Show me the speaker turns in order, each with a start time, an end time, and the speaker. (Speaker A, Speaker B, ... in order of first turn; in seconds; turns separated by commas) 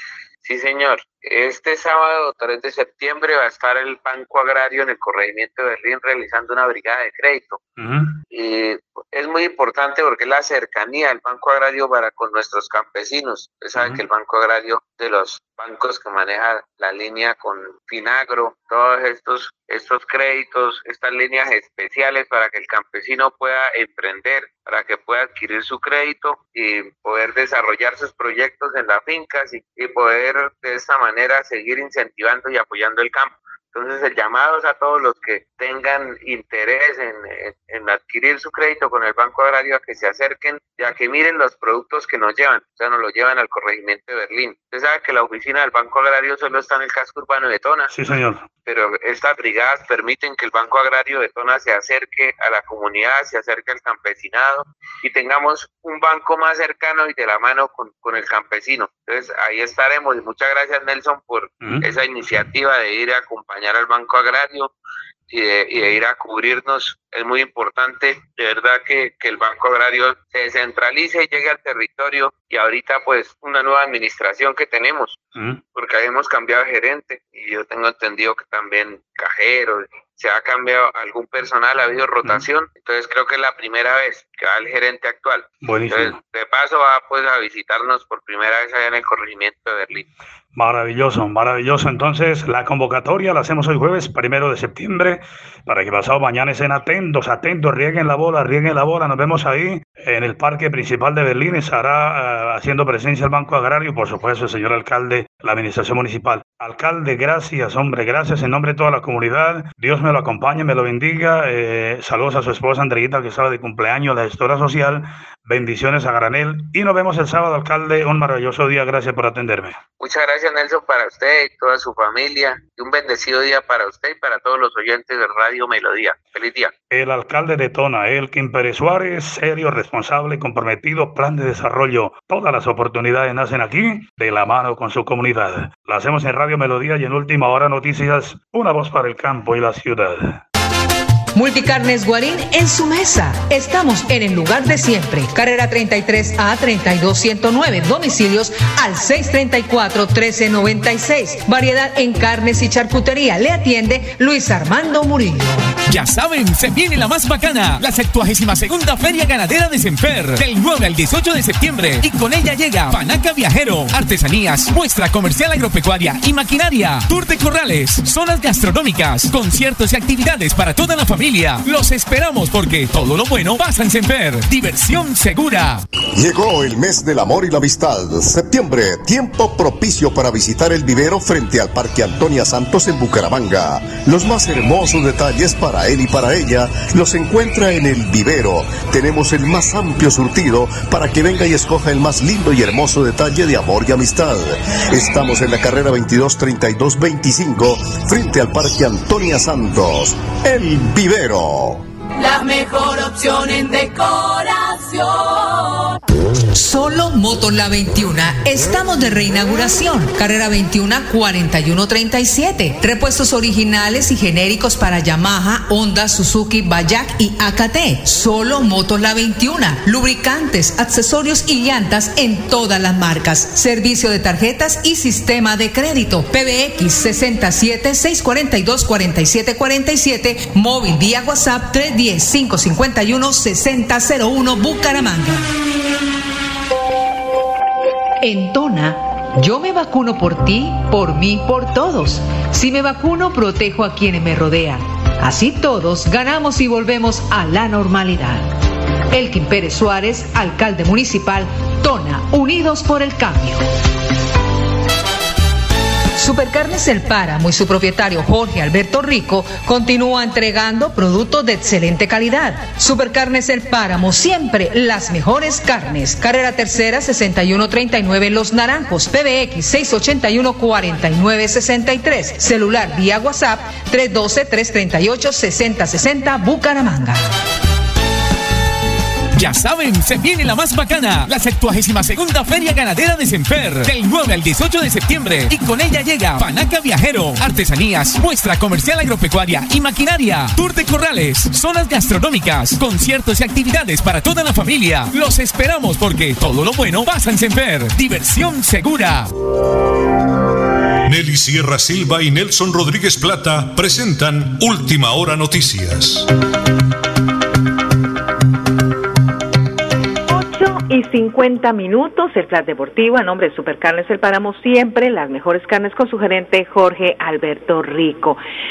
Speaker A: 0.4-7.6, Speaker B: 7.8-8.2, Speaker A: 8.3-47.9, Speaker B: 13.7-14.0, Speaker B: 47.9-48.5, Speaker A: 48.6-64.7, Speaker B: 61.6-61.9, Speaker A: 65.3-75.2, Speaker B: 75.3-75.6, Speaker A: 75.7-90.0, Speaker B: 85.6-86.2, Speaker B: 90.5-119.8, Speaker A: 120.0-126.7, Speaker B: 126.9-140.4, Speaker C: 141.3-155.7, Speaker D: 155.9-175.8, Speaker E: 176.1-201.8, Speaker F: 202.2-206.0, Speaker C: 206.5-235.5, Speaker C: 238.2-248.4, Speaker C: 249.1-253.7, Speaker C: 256.1-277.2, Speaker D: 279.3-299.3, Speaker G: 301.1-306.3, Speaker H: 310.3-318.4